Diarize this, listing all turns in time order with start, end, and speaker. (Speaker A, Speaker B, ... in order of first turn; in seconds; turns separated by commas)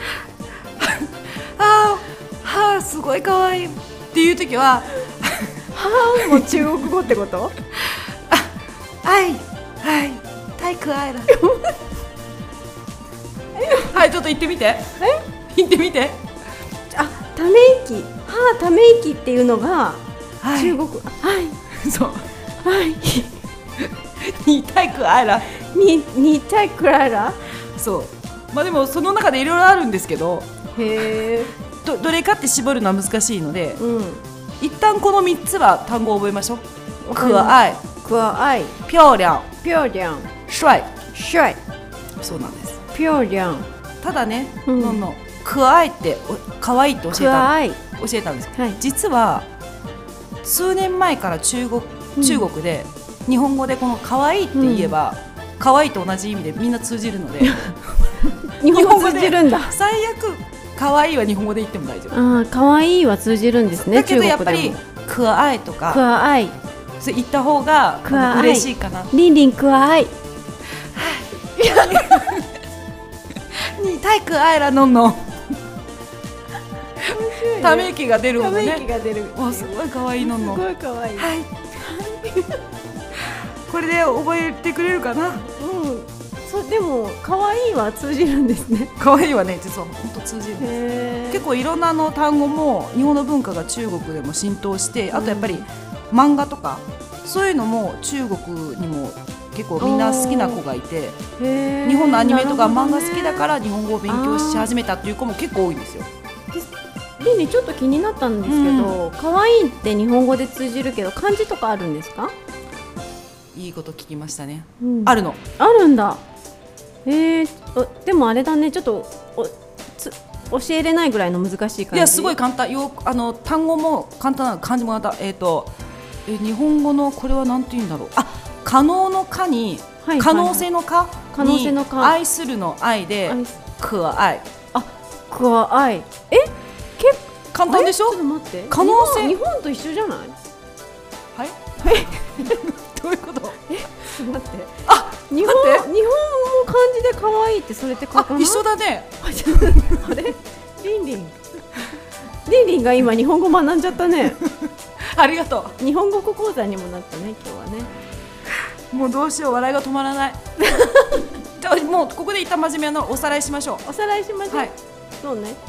Speaker A: 0.8-5.5, Speaker B: 5.7-7.5, Speaker A: 6.2-6.7, Speaker A: 7.7-8.5, Speaker A: 9.0-11.3, Speaker B: 11.3-11.7, Speaker B: 13.6-13.9, Speaker A: 13.7-15.0, Speaker A: 15.5-16.2, Speaker B: 16.9-20.0, Speaker A: 20.4-20.8, Speaker B: 20.5-21.6, Speaker A: 21.8-22.3, Speaker B: 22.6-23.3, Speaker A: 24.2-25.5, Speaker B: 25.5-27.4, Speaker A: 27.7-30.5, Speaker B: 30.7-31.5, Speaker A: 31.8-33.8, Speaker B: 33.8-34.2, Speaker A: 34.6-36.6, Speaker B: 37.1-38.8, Speaker A: 37.1-37.8, Speaker A: 38.9-39.5, Speaker B: 39.6-40.3, Speaker A: 40.5-40.9, Speaker B: 41.1-41.6, Speaker A: 42.2-42.8, Speaker B: 42.9-43.7, Speaker A: 44.0-49.5, Speaker B: 44.7-45.0, Speaker B: 47.1-47.8, Speaker A: 50.4-57.7, Speaker B: 52.2-52.5, Speaker B: 54.5-54.9, Speaker B: 58.3-59.7, Speaker A: 58.7-62.2, Speaker B: 62.1-64.8, Speaker A: 63.7-66.0, Speaker B: 65.9-66.5, Speaker A: 67.0-69.1, Speaker B: 68.0-70.1, Speaker A: 70.8-72.5, Speaker B: 71.6-72.3, Speaker A: 73.5-75.5, Speaker A: 77.0-80.6, Speaker B: 77.0-82.6, Speaker A: 81.2-81.5, Speaker A: 83.7-85.4, Speaker B: 85.5-88.9, Speaker A: 89.0-90.7, Speaker B: 90.6-91.4, Speaker A: 91.3-101.2, Speaker B: 95.1-95.6, Speaker B: 99.8-100.6, Speaker B: 101.4-103.5, Speaker A: 101.8-106.1, Speaker B: 104.1-104.7, Speaker B: 106.5-112.3, Speaker A: 108.5-109.0, Speaker A: 113.5-115.4, Speaker B: 114.8-116.2, Speaker B: 117.0-122.3, Speaker A: 121.9-125.7, Speaker A: 126.2-134.4, Speaker B: 130.0-130.7, Speaker B: 131.4-132.1, Speaker B: 134.7-140.4, Speaker A: 137.5-139.3, Speaker A: 141.3-143.6, Speaker B: 141.8-142.6, Speaker B: 143.7-148.6, Speaker A: 144.8-145.9, Speaker A: 148.1-150.1, Speaker B: 149.2-151.3, Speaker B: 152.4-154.4, Speaker A: 155.0-155.8, Speaker B: 155.8-157.9, Speaker A: 158.9-160.4, Speaker B: 160.6-161.2, Speaker A: 161.6-163.8, Speaker B: 163.8-165.6